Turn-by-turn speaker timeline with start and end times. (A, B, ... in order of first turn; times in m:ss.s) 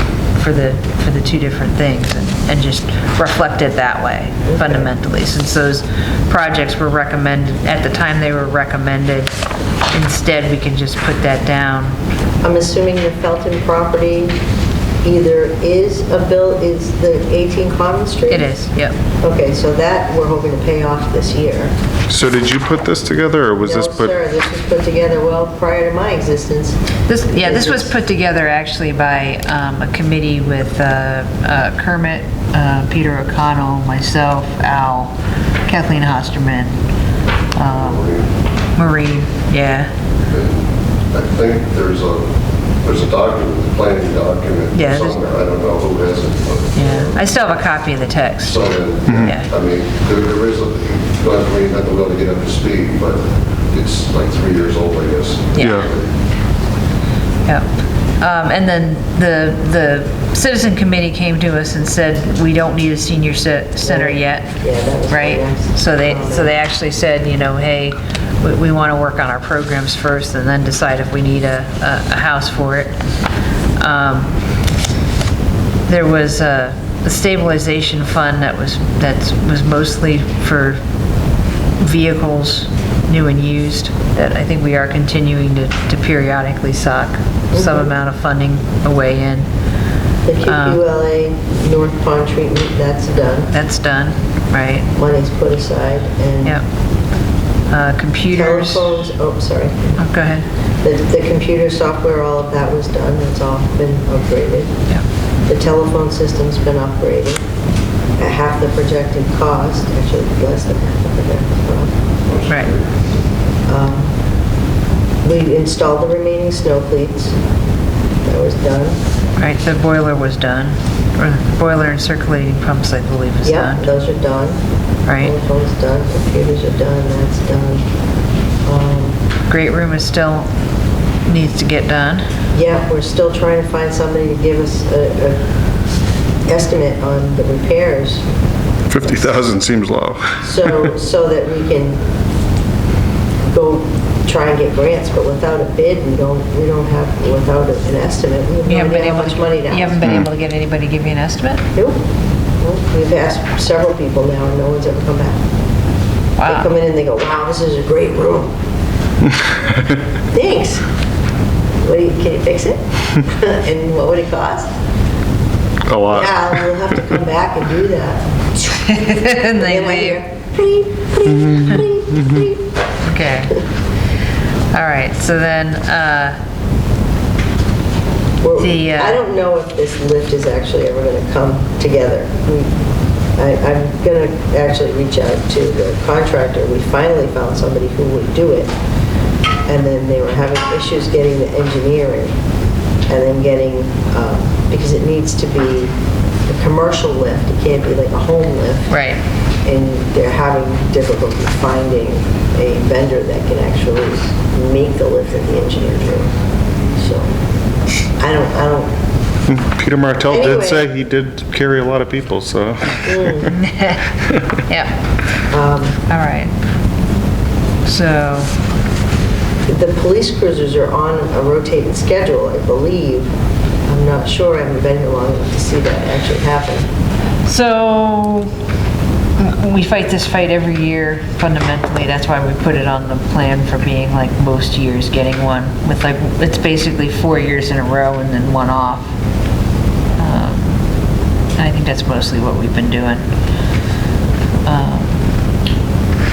0:00.3-0:09.3 A
0:04.5-0:04.9 B
0:09.9-0:12.0 A
0:12.4-0:14.4 B
0:15.0-0:18.5 B
0:18.3-0:19.0 A
0:19.2-0:21.7 B
0:22.1-0:24.1 C
0:23.6-0:26.8 B
0:27.1-0:35.1 A
0:27.3-0:27.9 B
0:35.6-0:36.7 A
0:37.6-0:38.0 A
0:37.6-0:38.3 D
0:38.8-0:39.9 A
0:40.3-0:42.3 D
0:42.8-0:47.2 D
0:44.7-0:45.2 A
0:46.8-0:49.5 A
0:48.4-0:56.1 D
0:49.1-0:49.3 C
0:55.5-0:55.9 A
0:55.6-0:55.9 C
0:58.2-1:04.5 A
1:03.8-1:06.5 B
1:05.1-1:13.0 A
1:13.8-1:14.3 A
1:15.9-1:20.8 A
1:21.8-1:29.5 A
1:27.5-1:27.9 B
1:30.2-1:33.5 B
1:30.4-1:30.8 A
1:33.5-1:34.9 A
1:35.0-1:36.6 B
1:37.7-1:39.0 A
1:38.3-1:40.0 B
1:40.0-1:40.4 A
1:40.8-1:44.7 B
1:45.5-1:47.4 B
1:48.2-1:51.9 B
1:52.3-1:52.8 D
1:52.5-1:52.7 A
1:53.7-1:54.1 B
1:55.2-1:57.3 B
1:58.2-1:59.0 B
1:59.4-2:03.9 A
2:03.4-2:04.6 B
2:05.0-2:05.3 A
2:05.2-2:07.8 B
2:08.6-2:09.2 B
2:09.5-2:10.5 A
2:11.2-2:12.2 A
2:12.5-2:15.4 B
2:16.5-2:18.2 B
2:18.9-2:20.8 C
2:20.4-2:22.0 B
2:23.4-2:30.0 B
2:28.6-2:31.6 A
2:32.6-2:35.4 B
2:36.4-2:36.7 A
2:36.4-2:38.5 B
2:40.3-2:40.8 B
2:41.8-2:44.7 B
2:45.8-2:46.8 C
2:46.1-2:48.3 B
2:48.6-2:50.2 A
2:49.5-2:52.7 B
2:53.0-2:53.6 A
2:54.7-2:56.4 A
2:58.4-3:02.7 B
2:58.6-2:59.2 A
3:03.4-3:08.7 B
3:09.7-3:12.3 B
3:13.1-3:15.9 B
3:16.5-3:18.9 B
3:18.9-3:19.2 A
3:19.6-3:26.3 B
3:26.9-3:27.3 B
3:28.2-3:28.9 B
3:29.5-3:33.5 C
3:30.3-3:30.8 B
3:33.0-3:33.5 B
3:33.5-3:34.0 A
3:34.6-3:35.0 A
3:35.5-3:35.9 B
3:36.1-3:36.5 A
3:37.8-3:38.5 A
3:39.7-3:43.3 B
3:43.9-3:46.8 B
3:47.4-3:48.5 A
3:49.4-3:59.1 A
4:00.2-4:00.8 A
4:01.6-4:03.2 A
4:04.6-4:05.2 A